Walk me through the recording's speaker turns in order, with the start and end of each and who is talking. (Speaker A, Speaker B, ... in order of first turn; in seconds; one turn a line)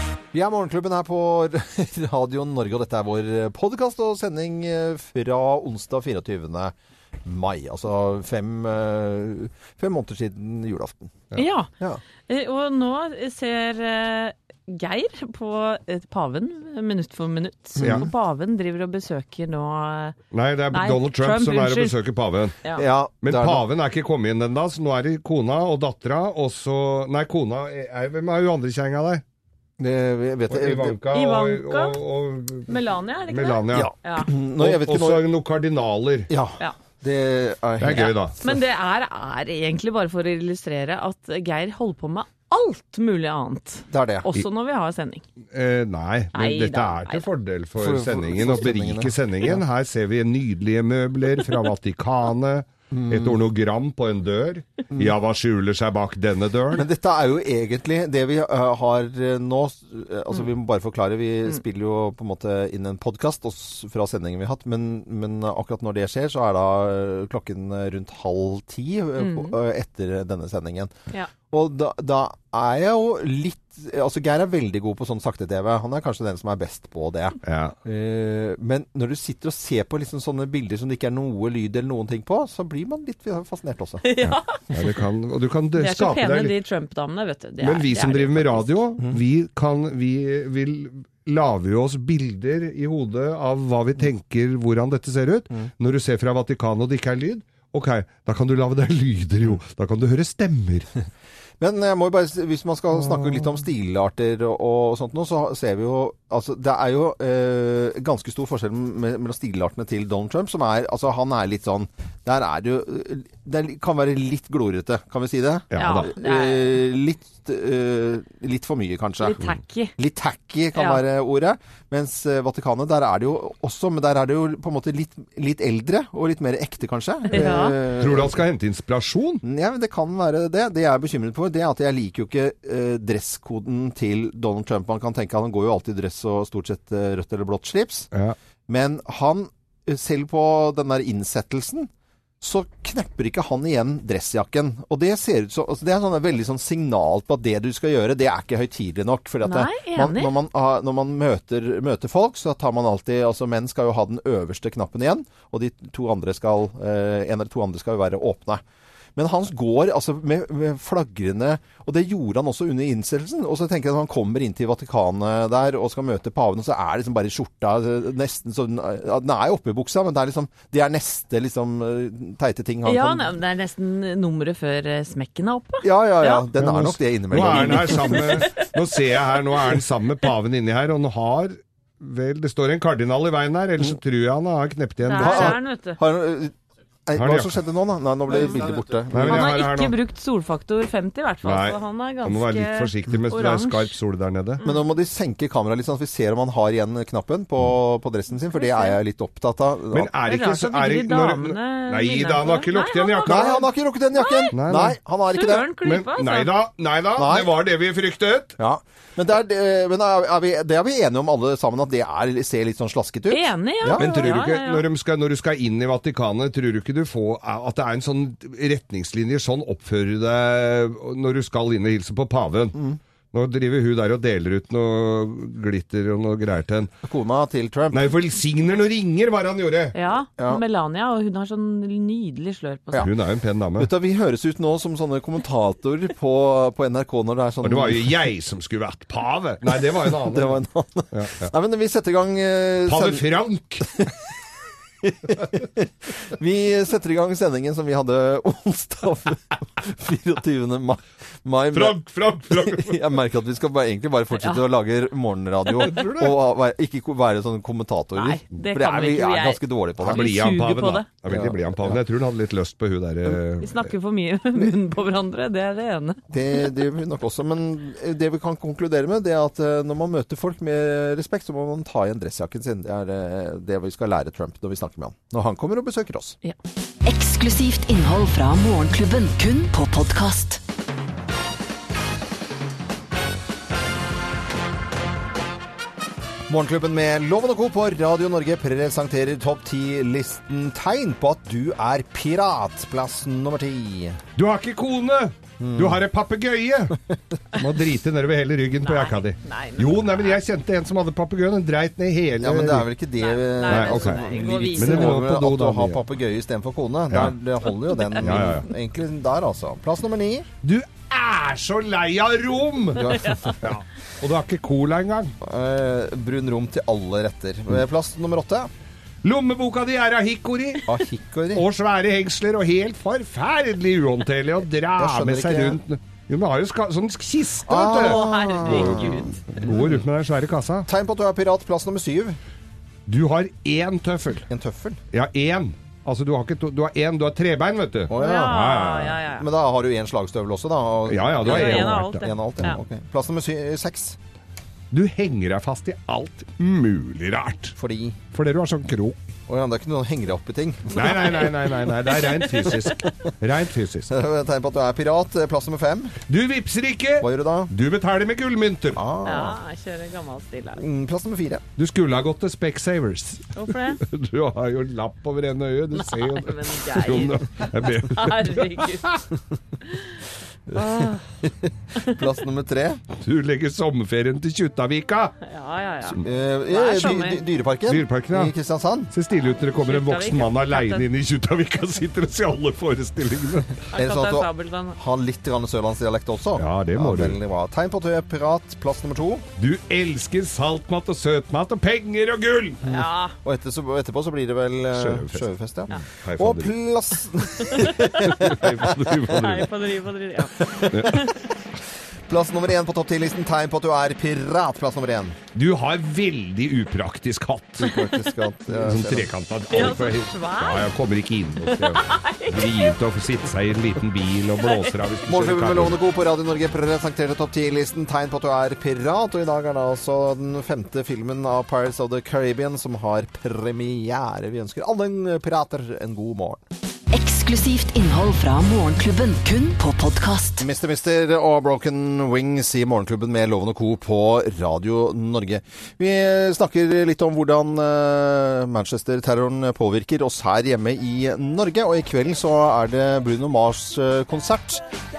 Speaker A: 0.3-11.3
Speaker B: 11.3-11.7
Speaker B: 12.3-20.2
Speaker A: 17.8-18.1
Speaker C: 17.8-18.1
Speaker C: 20.3-22.6
Speaker B: 20.7-22.0
Speaker A: 22.8-23.7
Speaker C: 23.2-29.2
Speaker A: 29.8-31.0
Speaker C: 30.5-32.7
Speaker B: 31.1-32.0
Speaker B: 32.7-34.3
Speaker C: 33.3-33.9
Speaker A: 33.7-35.3
Speaker C: 34.6-36.3
Speaker A: 36.3-38.1
Speaker C: 37.8-38.4
Speaker B: 38.4-45.2
Speaker A: 43.9-44.4
Speaker C: 45.5-56.9
Speaker B: 46.3-47.3
Speaker A: 47.8-49.6
Speaker A: 52.9-53.4
Speaker A: 56.7-70.9
Speaker B: 69.2-69.5
Speaker A: 71.5-84.8
Speaker C: 77.4-77.7
Speaker B: 84.0-84.5
Speaker C: 84.7-86.5
Speaker B: 85.8-88.8
Speaker C: 87.6-100.9
Speaker A: 101.6-119.4
Speaker C: 115.7-116.1
Speaker B: 115.8-116.7
Speaker B: 119.2-119.9
Speaker A: 120.0-128.4
Speaker B: 120.8-121.0
Speaker B: 127.3-127.8
Speaker C: 128.0-129.4
Speaker A: 129.4-138.1
Speaker A: 138.7-141.9
Speaker A: 142.4-158.6
Speaker B: 149.4-150.4
Speaker A: 159.2-173.4
Speaker B: 172.8-176.4
Speaker A: 175.8-178.4
Speaker C: 176.6-185.6
Speaker B: 177.6-178.6
Speaker B: 185.1-186.0
Speaker A: 185.2-186.5
Speaker A: 187.1-189.5
Speaker C: 187.2-187.6
Speaker C: 189.1-189.9
Speaker B: 189.3-193.9
Speaker C: 191.4-194.6
Speaker B: 194.6-194.9
Speaker A: 194.6-200.1
Speaker B: 198.5-199.0
Speaker C: 199.9-203.6
Speaker B: 200.2-204.5
Speaker A: 203.3-205.7
Speaker C: 204.5-205.0
Speaker B: 205.3-206.5
Speaker C: 205.8-208.5
Speaker A: 207.2-207.5
Speaker A: 208.6-214.2
Speaker B: 213.3-214.9
Speaker C: 213.9-222.8
Speaker C: 223.3-226.9
Speaker A: 227.1-228.1
Speaker C: 227.9-230.0
Speaker B: 229.9-233.1
Speaker C: 233.0-233.9
Speaker A: 233.8-238.2
Speaker C: 237.6-240.6
Speaker A: 239.7-243.2
Speaker C: 241.1-241.5
Speaker C: 242.9-243.9
Speaker A: 245.0-260.2
Speaker C: 251.7-253.0
Speaker B: 255.7-256.1
Speaker C: 255.9-256.4
Speaker B: 258.1-261.1
Speaker C: 260.0-263.9
Speaker A: 261.3-262.0
Speaker B: 263.3-266.2
Speaker A: 266.3-276.4
Speaker D: 277.0-280.6
Speaker A: 286.5-294.2
Speaker C: 294.4-296.9
Speaker A: 295.6-296.0
Speaker C: 297.6-302.9
Speaker B: 298.8-300.4
Speaker A: 302.4-310.5
Speaker B: 303.2-305.2
Speaker C: 303.7-306.0
Speaker C: 307.1-307.4
Speaker B: 307.8-308.3
Speaker C: 308.2-308.7
Speaker C: 310.6-315.3
Speaker A: 312.9-313.7
Speaker B: 313.0-313.6
Speaker A: 315.4-318.7
Speaker C: 319.2-320.9
Speaker A: 320.9-321.7
Speaker C: 321.5-330.9
Speaker A: 325.0-325.8
Speaker A: 327.6-330.0
Speaker B: 327.8-329.3
Speaker A: 330.9-332.4
Speaker C: 333.1-334.5
Speaker A: 334.5-335.0
Speaker C: 335.1-339.2
Speaker A: 338.1-344.2
Speaker B: 338.2-339.5
Speaker C: 341.1-342.2
Speaker B: 341.4-342.8
Speaker C: 344.9-347.7
Speaker A: 347.8-348.2
Speaker C: 348.3-349.2
Speaker A: 349.5-351.4
Speaker C: 350.9-354.1
Speaker B: 351.0-352.9
Speaker A: 354.1-356.2
Speaker C: 356.3-359.0
Speaker A: 357.2-357.7
Speaker A: 358.9-359.6
Speaker B: 359.2-360.8
Speaker A: 360.8-361.6
Speaker C: 361.8-369.2
Speaker B: 363.6-364.0
Speaker B: 365.9-369.2
Speaker B: 369.9-370.2
Speaker A: 370.7-373.0
Speaker B: 370.7-371.3
Speaker C: 373.2-375.3
Speaker B: 375.4-377.4
Speaker A: 376.2-379.1
Speaker C: 377.9-378.5
Speaker C: 379.1-383.8
Speaker B: 379.8-381.1
Speaker B: 383.9-385.0
Speaker A: 383.9-389.5
Speaker C: 386.6-387.4
Speaker C: 389.6-392.8
Speaker B: 392.9-393.4
Speaker A: 392.9-398.8
Speaker C: 394.9-396.7
Speaker B: 397.7-398.3
Speaker C: 398.1-399.7
Speaker B: 399.3-401.3
Speaker A: 400.6-401.3
Speaker C: 400.9-401.2
Speaker A: 402.3-405.4
Speaker C: 405.6-407.9
Speaker A: 407.8-409.3
Speaker C: 408.7-416.0
Speaker B: 409.7-410.9
Speaker B: 411.6-412.9
Speaker B: 414.6-414.9
Speaker A: 415.3-426.6
Speaker D: 427.1-430.6
Speaker A: 430.6-444.8